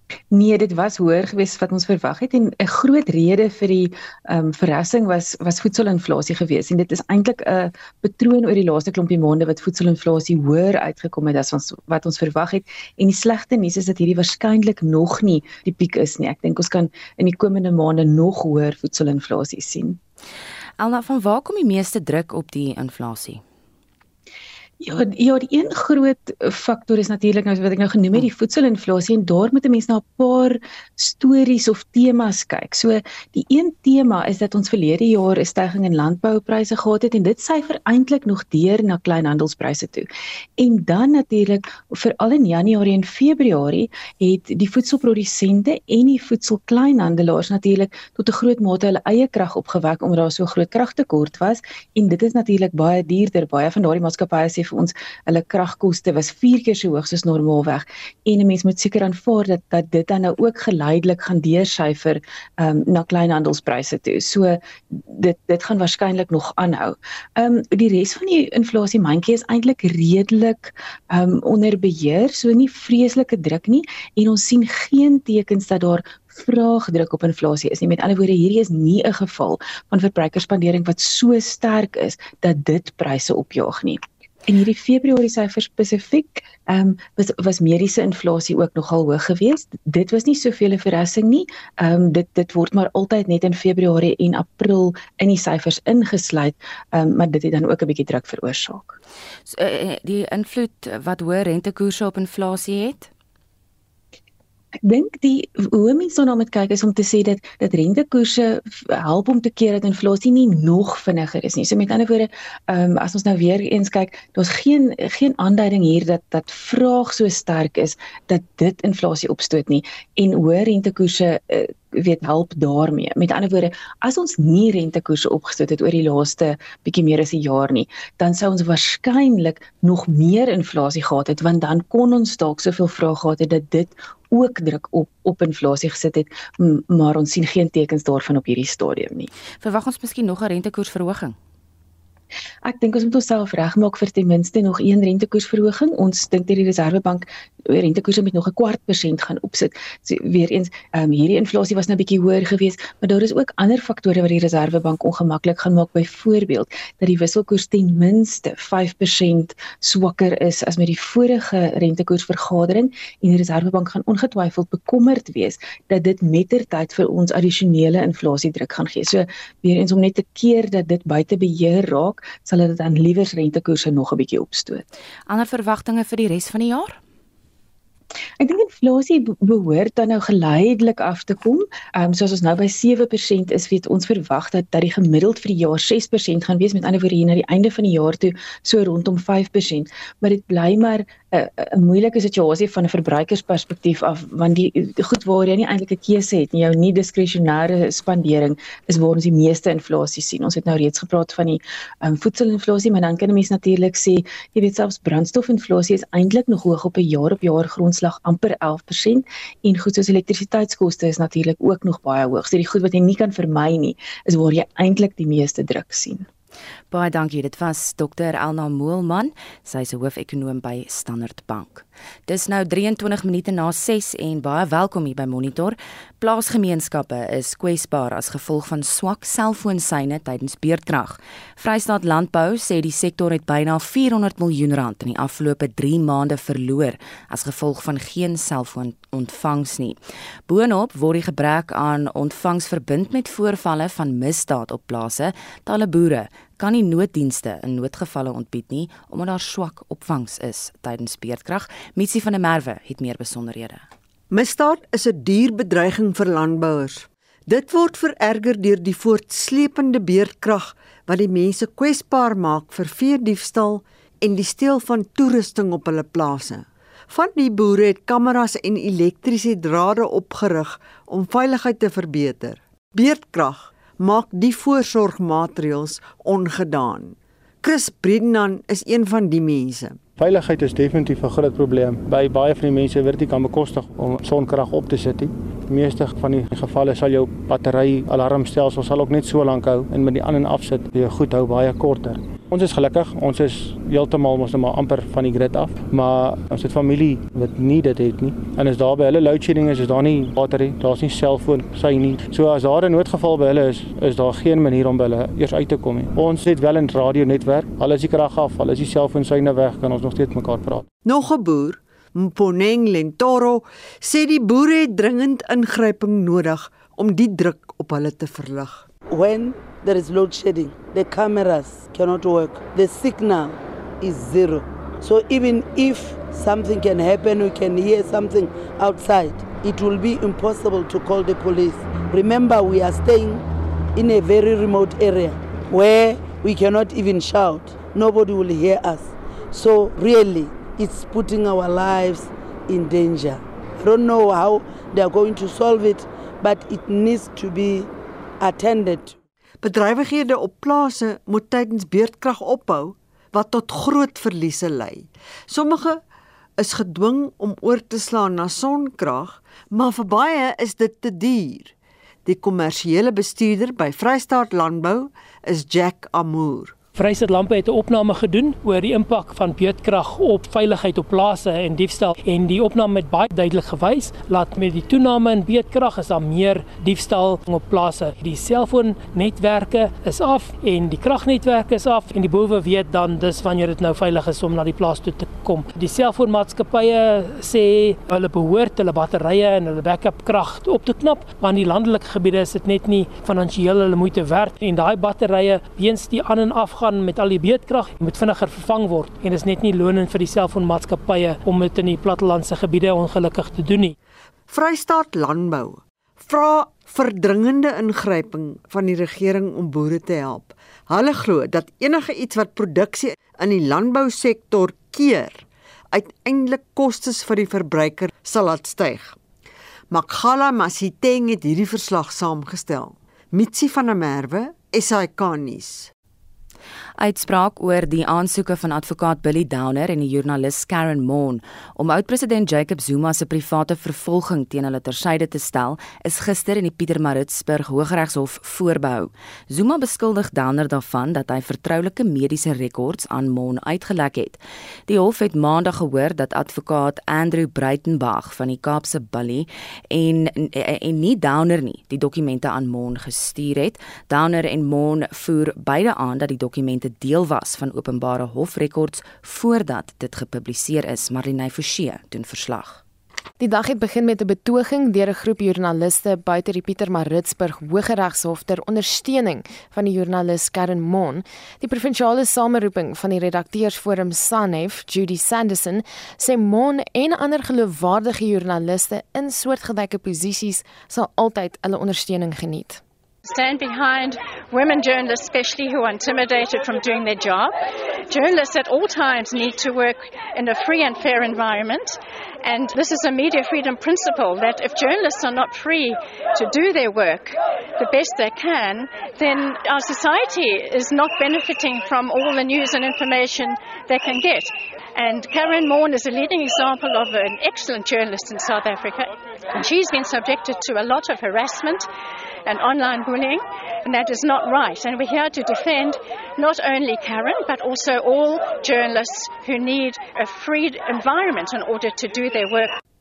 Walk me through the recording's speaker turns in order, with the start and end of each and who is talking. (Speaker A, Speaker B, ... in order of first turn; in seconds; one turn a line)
Speaker A: 0.3-20.0
Speaker B: 20.8-23.4
Speaker A: 24.8-99.0
Speaker B: 99.5-103.1
Speaker A: 104.8-139.3
Speaker B: 139.6-141.3
Speaker A: 142.6-174.9
Speaker B: 175.3-177.0
Speaker A: 178.4-216.2
Speaker B: 216.9-253.8
Speaker C: 254.3-280.0
Speaker D: 280.2-310.8
Speaker C: 311.0-318.8
Speaker E: 319.1-333.4
Speaker E: 333.9-349.2
Speaker C: 349.6-356.0
Speaker C: 356.6-361.7
Speaker C: 362.2-366.7
Speaker F: 366.9-403.9
Speaker C: 404.5-419.2
Speaker C: 419.9-425.9
Speaker B: 427.0-462.8
Speaker G: 463.4-482.8
Speaker H: 483.2-487.5
Speaker H: 488.1-511.9
Speaker H: 512.4-522.8